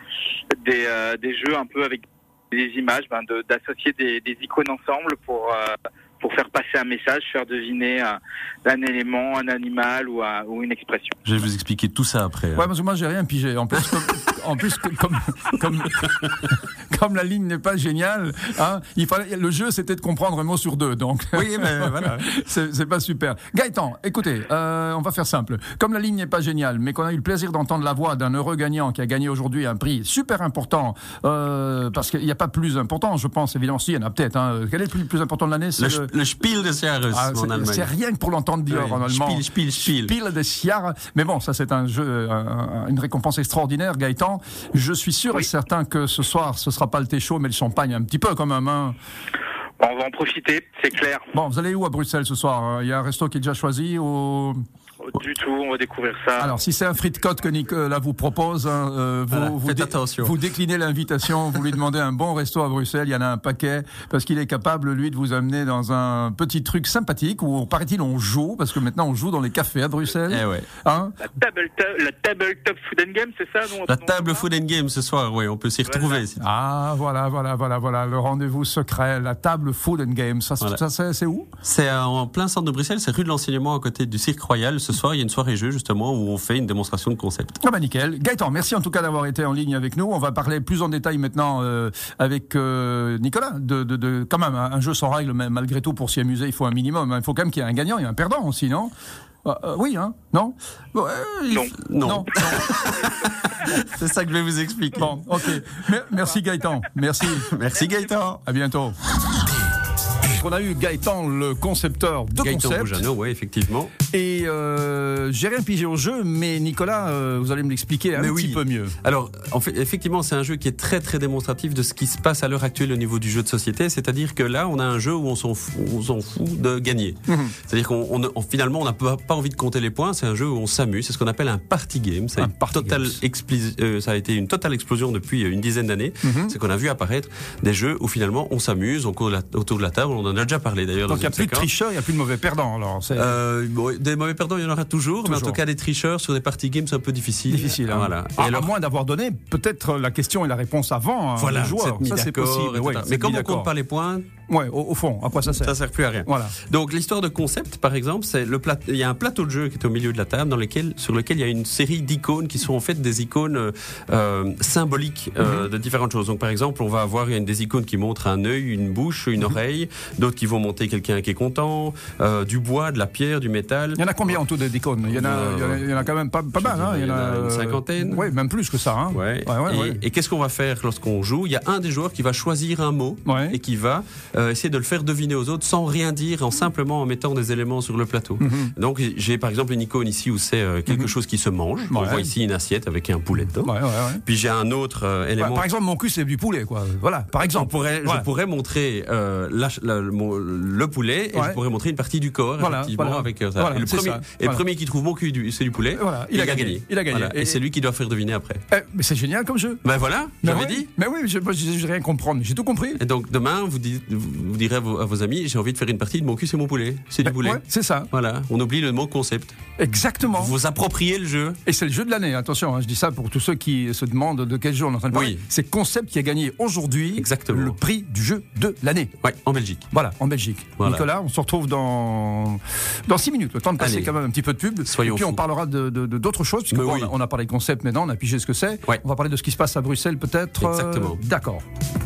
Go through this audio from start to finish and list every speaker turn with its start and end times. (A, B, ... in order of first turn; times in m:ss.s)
0:00.6-0:11.2 A
0:11.2-0:12.7 B
0:12.5-0:36.1 C
0:21.3-0:22.3 B
0:35.8-0:37.9 B
0:37.1-0:49.0 C
0:38.7-0:40.1 B
0:49.8-0:51.3 A
0:51.3-0:54.6 C
0:55.1-0:56.5 A
0:56.4-1:11.2 C
0:59.3-1:00.4 B
1:10.3-1:10.7 B
1:11.2-1:14.4 A
1:13.8-1:16.4 B
1:15.9-1:16.2 A
1:16.4-1:21.5 C
1:21.6-1:27.6 B
1:27.6-1:38.9 C
1:39.4-1:40.6 C
1:40.9-1:45.5 B
1:41.5-1:41.8 A
1:42.0-1:42.8 C
1:45.0-1:47.5 C
1:47.2-1:48.4 B
1:48.4-1:49.0 C
1:50.3-1:53.0 C
1:52.4-1:53.9 B
1:54.1-1:58.9 C
1:58.2-2:21.7 B
2:07.3-2:07.6 C
2:12.4-2:13.2 C
2:16.2-2:16.5 C
2:21.1-2:23.4 C
2:23.1-2:28.7 B
2:25.2-2:25.6 C
2:27.5-2:33.7 C
2:31.4-2:34.2 B
2:34.5-2:36.6 C
2:35.4-2:54.4 B
2:45.4-2:45.7 C
2:54.0-3:00.0 C
2:55.1-2:56.0 B
2:56.6-2:58.3 B
2:59.1-3:15.7 B
3:03.2-3:03.6 C
3:08.4-3:08.7 C
3:11.9-3:12.3 C
3:13.6-3:14.2 C
3:15.4-3:18.2 C
3:17.4-3:28.6 B
3:21.3-3:21.6 C
3:22.6-3:24.6 C
3:25.9-3:27.6 C
3:28.7-3:29.8 C
3:29.8-3:30.9 B
3:30.4-3:33.0 C
3:32.9-3:39.6 B
3:37.2-3:38.1 C
3:39.8-3:40.6 C
3:40.3-3:41.6 B
3:41.6-3:49.1 C
3:45.1-3:45.4 B
3:47.2-3:47.8 B
3:49.2-3:49.8 B
3:49.9-4:01.6 C
3:50.8-3:51.1 B
3:53.8-3:54.1 B
3:54.8-3:55.4 B
3:56.7-3:57.1 B
4:00.6-4:01.2 B